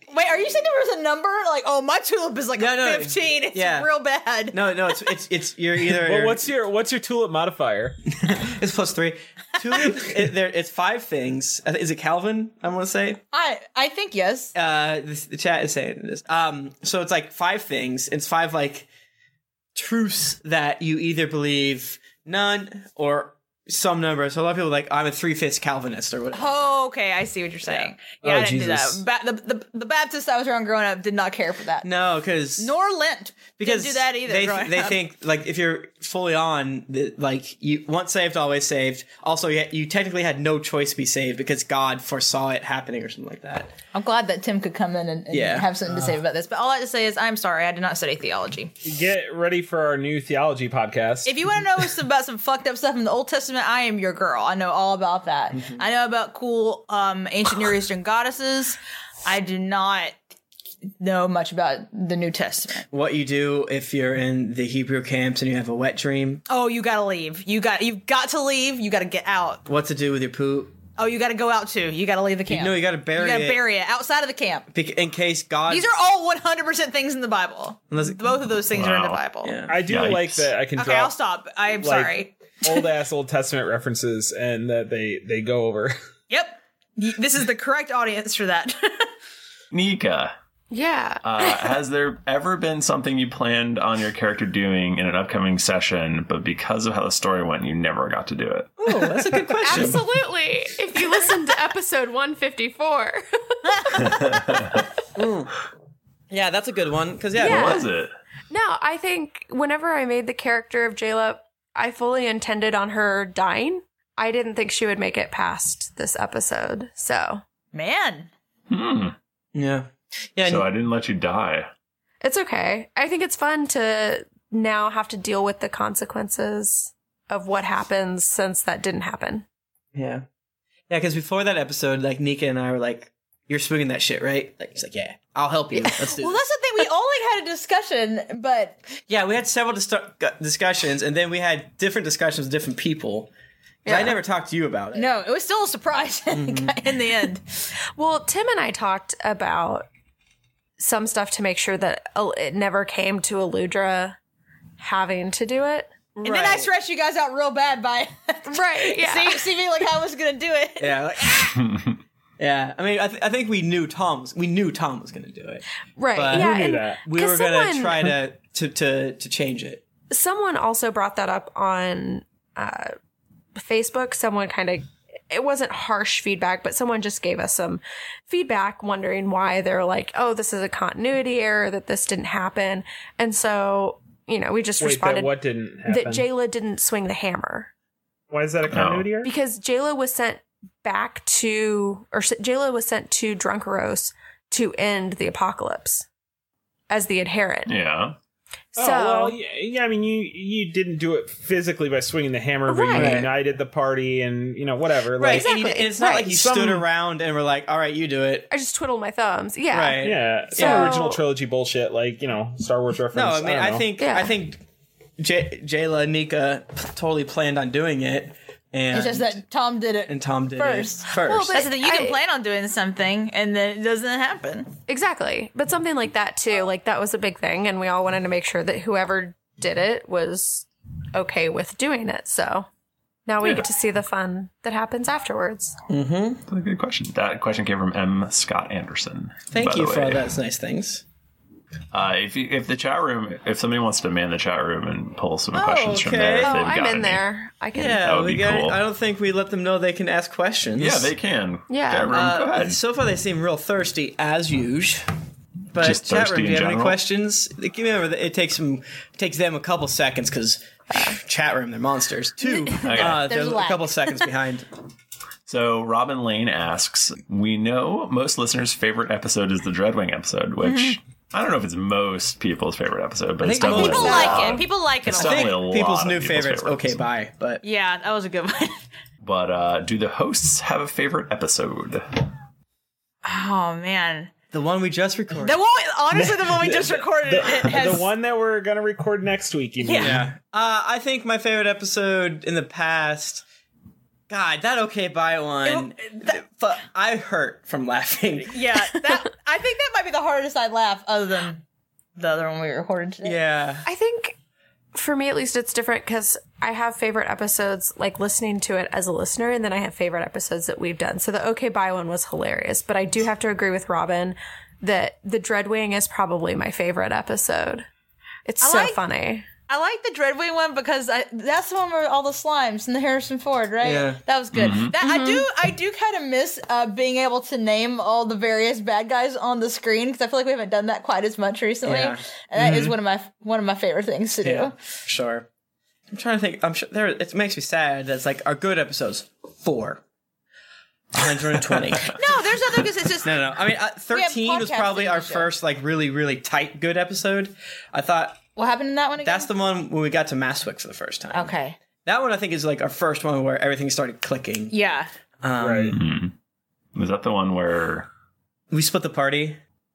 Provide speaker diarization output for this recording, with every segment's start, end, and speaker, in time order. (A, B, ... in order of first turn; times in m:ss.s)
0:00.1-0:05.1 A
0:02.6-0:03.9 B
0:04.5-0:06.5 B
0:05.9-0:08.0 C
0:08.2-0:13.2 B
0:13.3-0:14.5 A
0:14.6-0:18.9 B
0:19.8-0:26.7 B
0:26.3-0:31.9 A
0:28.2-0:29.0 C
0:31.8-0:32.7 B
0:32.6-0:35.0 A
0:33.6-0:43.7 B
0:43.9-0:48.7 A
0:45.3-0:46.2 B
0:48.8-0:51.9 C
0:51.2-1:00.2 A
0:55.5-0:55.8 B
1:01.0-1:02.9 A
1:02.9-1:06.4 B
1:06.5-1:09.6 A
1:09.7-1:10.8 B
1:11.0-1:14.7 A
1:12.5-1:13.6 B
1:14.7-1:15.9 B
1:15.7-1:19.6 A
1:17.9-1:18.2 B
1:18.8-1:19.2 D
1:19.4-1:19.8 B
1:19.7-1:21.1 C
1:19.8-1:20.6 D
1:20.8-1:22.9 A
1:21.8-1:26.0 C
1:26.3-1:29.1 A
1:29.7-1:30.3 D
1:30.7-1:31.8 E
1:31.2-1:38.7 D
1:38.8-1:40.0 B
1:39.3-1:39.6 C
1:39.6-1:43.6 E
1:44.0-1:44.8 D
1:45.2-1:45.5 B
1:46.3-1:47.9 B
1:47.4-1:47.9 E
1:47.4-1:48.1 D
1:48.5-1:57.4 E
1:57.7-1:58.3 A
1:58.7-1:59.2 D
1:59.6-2:00.7 B
2:00.4-2:01.7 D
2:02.2-2:09.5 E
2:10.0-2:10.2 B
2:10.9-2:16.4 B
2:16.0-2:18.8 A
2:19.1-2:23.3 B
2:23.8-2:24.2 E
2:23.9-2:25.1 B
2:24.9-2:27.7 A
2:26.3-2:26.7 B
2:28.0-2:29.9 E
2:30.8-2:34.2 E
2:34.8-2:36.0 E
2:36.2-2:36.7 B
2:36.2-2:41.0 A
2:38.5-2:39.4 E
2:40.8-2:41.6 B
2:41.5-2:42.0 D
2:42.4-2:49.8 B
2:46.0-2:48.2 E
2:46.2-2:47.0 C
2:50.1-2:52.9 E
2:53.6-3:05.3 E
3:04.8-3:06.3 C
3:05.9-3:07.7 E
3:08.3-3:09.3 C
3:08.7-3:09.2 D
3:09.2-3:16.1 E
3:16.9-3:17.8 E
3:17.7-3:18.2 D
3:18.8-3:19.4 E
3:18.8-3:26.9 C
3:22.7-3:23.3 E
3:22.9-3:23.3 B
3:25.2-3:28.5 B
3:25.3-3:26.3 E
3:28.5-3:31.2 E
3:29.7-3:31.0 B
3:30.0-3:33.9 C
3:33.1-3:34.6 B
3:34.0-3:34.4 E
3:35.2-3:39.4 B
3:38.9-3:44.7 A
3:40.1-3:41.6 B
3:41.2-3:42.2 E
3:44.9-3:52.7 E
3:53.3-3:55.8 E
3:55.9-3:56.4 B
3:56.5-4:00.3 D
3:59.5-4:01.0 B
4:01.9-4:07.2 D
4:05.5-4:06.7 B
4:06.4-4:08.1 E
4:07.7-4:11.1 B
4:07.9-4:08.8 D
4:10.8-4:12.8 D
4:11.7-4:12.2 E
4:12.1-4:15.1 B
4:15.7-4:24.7 B
4:15.8-4:17.0 D
4:20.9-4:21.2 E
4:22.4-4:24.3 A
4:22.8-4:23.3 D
4:25.5-4:37.0 D
4:30.6-4:31.0 A
4:33.4-4:34.6 B
4:33.6-4:35.5 A
4:35.2-4:37.6 B
4:37.6-4:38.8 A
4:39.2-4:42.0 D
4:43.2-4:44.3 A
4:44.5-4:45.6 B
4:45.4-4:48.1 A
4:46.1-4:50.3 C
4:49.8-4:50.2 A
4:50.0-4:53.4 B
4:54.3-4:58.6 B
4:55.6-4:56.4 A
4:58.5-5:01.6 A
5:02.2-5:03.4 A
5:03.2-5:03.8 B
5:03.8-5:04.4 E
5:04.9-5:17.9 E
5:18.5-5:19.5 E
5:18.6-5:19.0 A
5:19.7-5:34.8 A
5:23.8-5:24.2 B
5:24.5-5:25.0 D
5:25.0-5:25.5 E
5:31.8-5:32.9 B
5:34.4-5:35.5 B
5:36.1-5:40.0 B
5:41.1-5:42.2 B
5:42.1-5:43.4 A
5:43.2-5:48.4 B
5:44.1-5:45.5 A
5:48.6-5:49.5 A
5:49.2-5:51.5 B
5:51.3-5:51.8 A
5:52.0-5:54.7 B
5:54.7-5:55.1 A
5:55.4-5:56.0 B
5:55.6-5:56.0 C
5:55.9-5:56.3 D
5:57.0-5:58.1 D
5:58.7-5:59.6 B